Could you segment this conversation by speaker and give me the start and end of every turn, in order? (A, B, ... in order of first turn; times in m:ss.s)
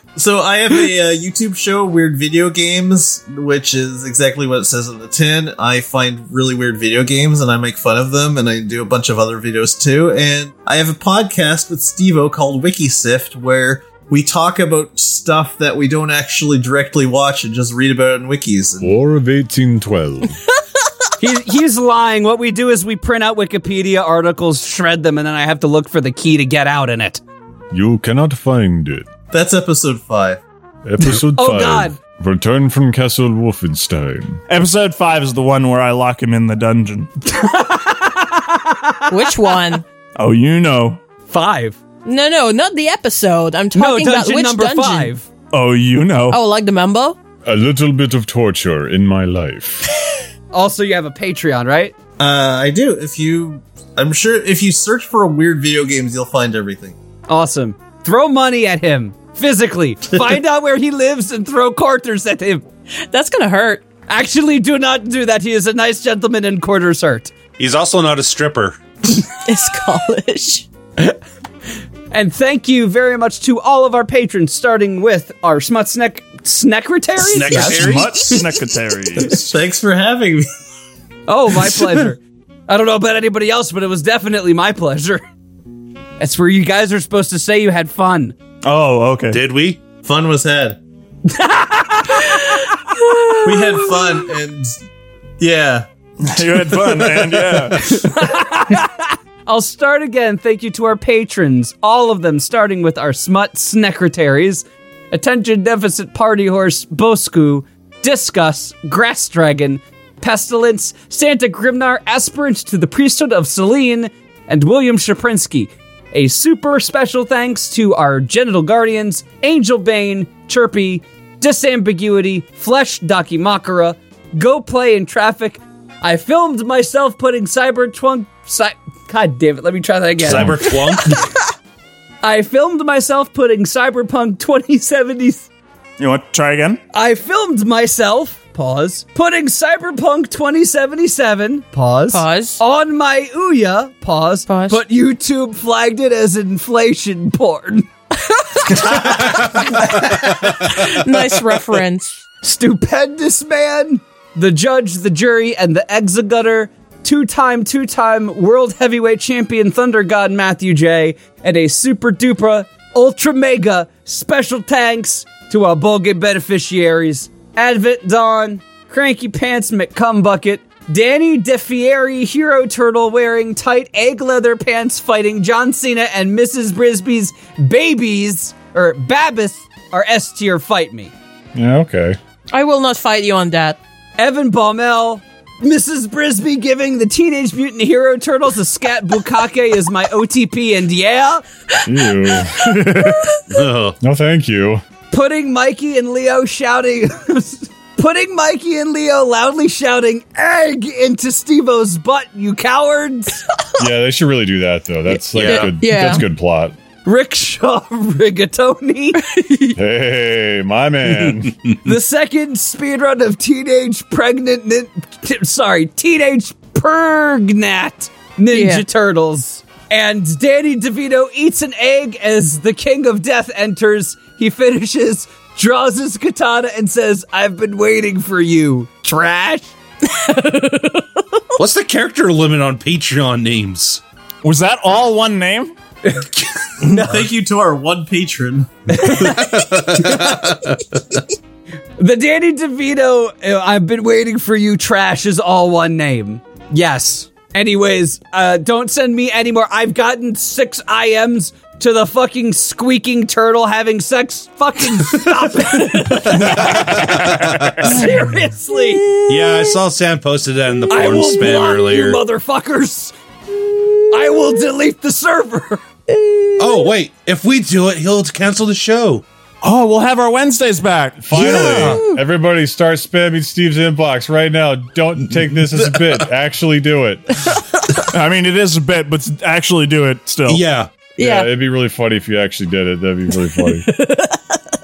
0:00.2-0:18.9 A
0:18.8-0:20.4 B
0:21.2-0:27.2 C
0:27.7-0:29.1 B
0:29.3-0:30.4 A
0:30.8-0:34.4 B
0:31.3-0:32.0 C
0:34.5-0:37.1 D
0:37.3-0:39.1 C
0:39.1-0:39.8 E
0:40.2-0:41.0 D
0:41.3-0:41.8 C
0:42.0-0:45.1 E
0:43.7-0:45.3 C
0:45.5-0:46.4 D
0:46.3-0:47.2 E
0:47.4-0:49.9 B
0:50.5-0:51.9 C
0:52.2-0:57.0 A
0:57.3-1:02.6 C
1:03.1-1:03.9 E
1:04.1-1:07.3 C
1:07.6-1:08.8 F
1:09.4-1:10.7 E
1:12.1-1:18.4 C
1:17.2-1:18.4 F
1:17.4-1:19.5 D
1:19.2-1:20.5 A
1:21.3-1:25.2 C
1:26.2-1:28.3 C
1:28.6-1:29.4 D
1:29.3-1:29.8 F
1:30.0-1:30.8 A
1:31.3-1:33.1 C
1:33.4-1:34.8 A
1:35.4-1:37.6 A
1:36.2-1:38.0 D
1:37.9-2:11.2 C
2:10.2-2:11.2 F
2:10.3-2:10.6 B
2:12.2-2:15.5 C
2:16.0-2:16.8 D
2:16.9-2:27.9 C
2:22.1-2:22.6 E
2:24.5-2:24.8 E
2:28.3-2:28.8 E
2:28.7-2:30.1 C
2:30.0-2:32.2 E
2:32.4-3:01.1 C
3:01.6-3:02.2 B
3:02.5-3:03.8 E
3:04.2-3:11.4 C
3:11.9-3:12.8 B
3:12.6-3:13.1 D
3:13.5-3:14.0 F
3:14.0-3:14.8 B
3:15.1-3:23.4 C
3:23.8-3:26.8 B
3:25.4-3:25.7 F
3:25.4-3:26.2 E
3:27.0-3:29.6 C
3:29.4-3:29.7 E
3:29.7-3:31.5 B
3:31.2-3:31.8 F
3:31.8-3:49.7 C
3:38.5-3:38.8 E
3:50.2-3:50.9 E
3:51.6-3:54.0 F
3:54.4-3:55.7 D
3:56.1-3:56.3 C
3:56.8-3:59.2 A
3:56.9-3:57.2 C
3:59.0-4:01.0 F
4:02.0-4:16.9 C
4:16.2-4:18.0 F
4:16.6-4:17.4 D
4:17.8-4:19.1 C
4:19.3-4:22.2 F
4:20.9-4:23.1 C
4:23.7-4:24.0 E
4:24.1-4:25.8 C
4:26.1-4:26.9 E
4:26.6-4:29.2 F
4:29.6-4:31.3 D
4:31.2-4:37.4 B
4:31.4-4:32.0 F
4:31.4-4:32.2 E
4:38.1-4:40.6 D
4:40.5-4:40.9 F
4:41.2-4:41.5 E
4:41.2-4:43.9 B
4:44.0-4:44.4 E